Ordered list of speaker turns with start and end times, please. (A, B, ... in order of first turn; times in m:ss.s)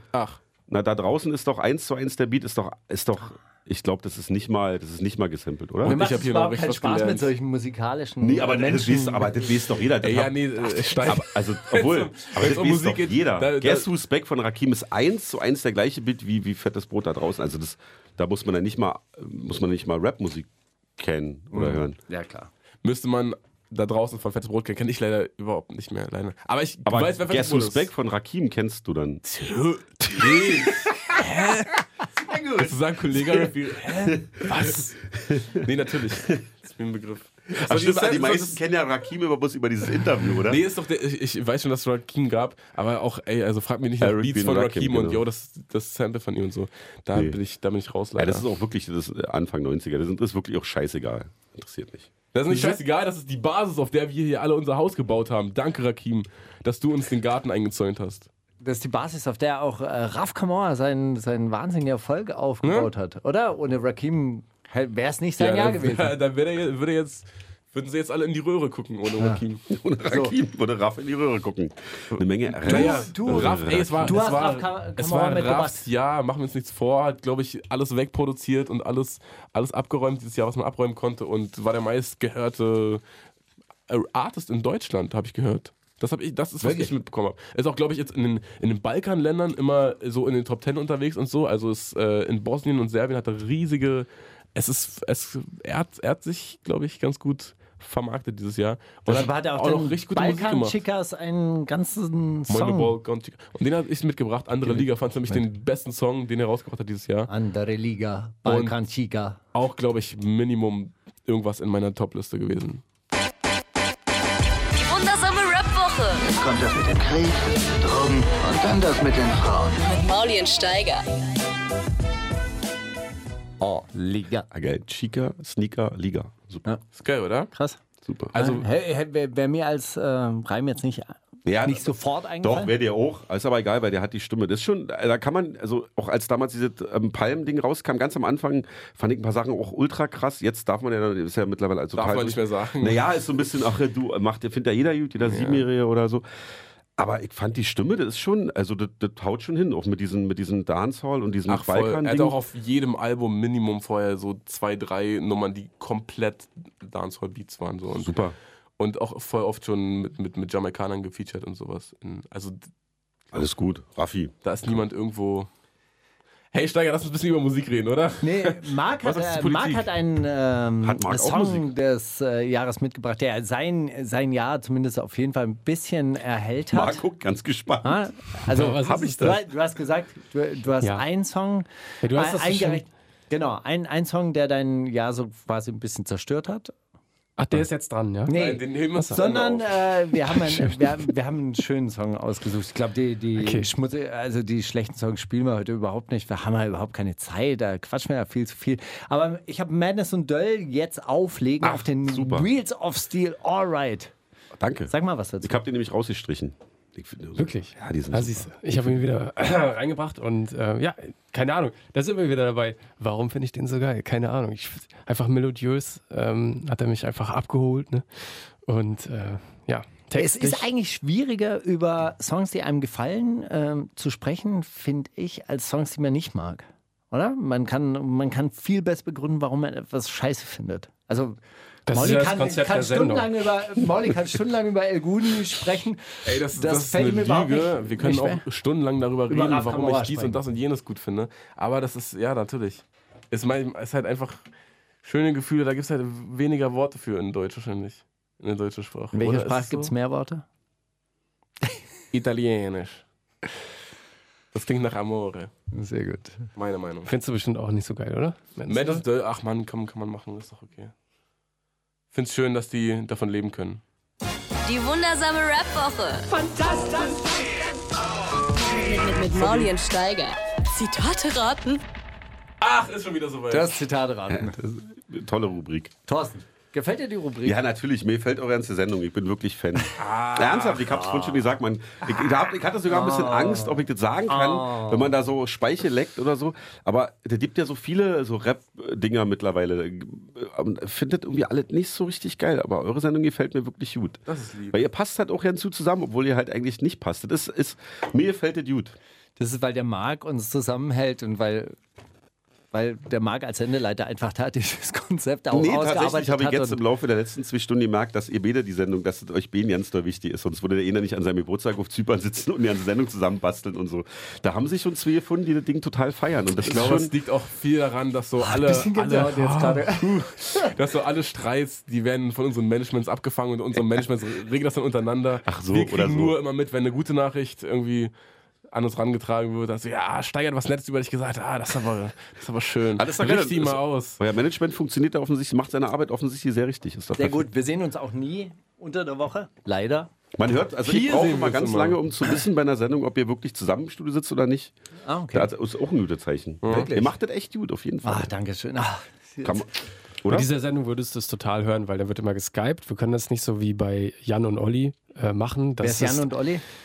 0:00.1-0:00.4 A
0:00.7-0:06.0 B
0:05.8-0:07.3 A
0:05.8-0:09.3 C
0:08.2-0:22.0 B
0:10.0-0:13.9 A
0:21.5-0:22.5 C
0:22.8-0:27.9 A
0:26.9-0:29.2 B
0:29.3-0:31.8 A
0:30.2-0:30.4 B
0:32.3-0:36.3 B
0:32.6-0:35.0 A
0:35.5-0:38.6 A
0:37.5-0:40.6 B
0:40.5-0:48.5 A
0:44.0-0:45.2 B
0:48.2-0:52.1 B
0:52.3-0:58.3 A
0:58.6-1:06.1 C
1:02.6-1:02.9 A
1:05.4-1:09.6 A
1:09.7-1:14.2 B
1:10.0-1:10.4 C
1:12.6-1:23.0 A
1:12.6-1:15.8 C
1:23.9-1:40.8 A
1:26.6-1:26.9 C
1:39.1-1:43.0 C
1:42.5-1:47.3 A
1:44.6-1:45.4 C
1:47.3-1:49.4 C
1:48.5-1:48.7 A
1:49.5-1:52.8 A
1:54.8-1:56.3 D
1:56.4-1:59.8 E
1:59.8-2:01.0 D
2:03.6-2:04.5 C
2:04.5-2:06.6 B
2:07.0-2:07.5 A
2:07.5-2:07.8 C
2:08.0-2:08.3 B
2:08.3-2:08.7 A
2:08.3-2:12.8 C
2:11.5-2:26.2 B
2:22.0-2:23.0 A
2:25.2-2:25.6 A
2:27.0-2:32.4 B
2:31.5-2:38.2 A
2:38.0-2:38.4 B
2:38.8-2:42.7 A
2:43.3-2:44.7 B
2:44.4-2:45.5 A
2:46.5-2:49.8 A
2:48.2-2:57.0 C
2:50.8-2:51.7 B
2:56.7-2:59.4 B
2:57.8-3:06.7 C
2:58.6-2:59.4 F
3:02.0-3:02.8 F
3:07.4-3:08.4 F
3:08.3-3:24.1 C
3:08.3-3:09.7 A
3:09.0-3:09.2 F
3:10.3-3:11.0 F
3:13.4-3:13.7 F
3:21.6-3:22.5 B
3:24.6-3:29.0 B
3:24.9-3:25.6 C
3:27.4-3:38.1 F
3:38.7-3:40.7 F
3:40.2-3:51.4 C
3:51.9-3:53.3 F
3:51.9-3:58.4 C
3:56.2-4:04.4 A
3:59.3-4:00.4 C
4:05.0-4:09.9 A
4:09.1-4:10.4 C
4:12.1-4:13.0 A
4:14.5-4:15.5 A
4:15.7-4:16.5 C
4:16.6-4:17.1 A
4:17.1-4:19.0 F
4:18.7-4:20.9 A
4:22.1-4:23.8 A
4:24.6-4:27.6 D
4:28.5-4:31.8 D
4:32.6-4:33.8 A
4:33.5-4:34.6 C
4:34.3-4:35.9 B
4:36.1-4:37.6 C
4:37.4-4:59.0 B
4:40.0-4:41.0 A
4:42.9-4:45.1 C
4:54.3-4:54.8 A
4:59.4-5:01.8 C
5:02.7-5:06.8 C
5:05.5-5:17.1 B
5:16.6-5:28.1 A
5:18.4-5:20.7 C
5:23.8-5:24.0 B
5:25.4-5:26.4 B
5:28.7-5:34.2 A
5:33.0-5:37.5 B
5:37.2-5:40.1 C
5:40.4-5:44.7 B
5:40.8-5:42.0 A
5:45.0-5:45.5 C
5:45.3-5:48.3 B
5:46.6-5:46.9 A
5:46.7-5:47.1 C
5:48.0-5:49.6 C
5:49.4-5:49.7 B
5:50.2-5:50.5 B
5:50.3-5:56.3 F
5:55.8-5:56.6 C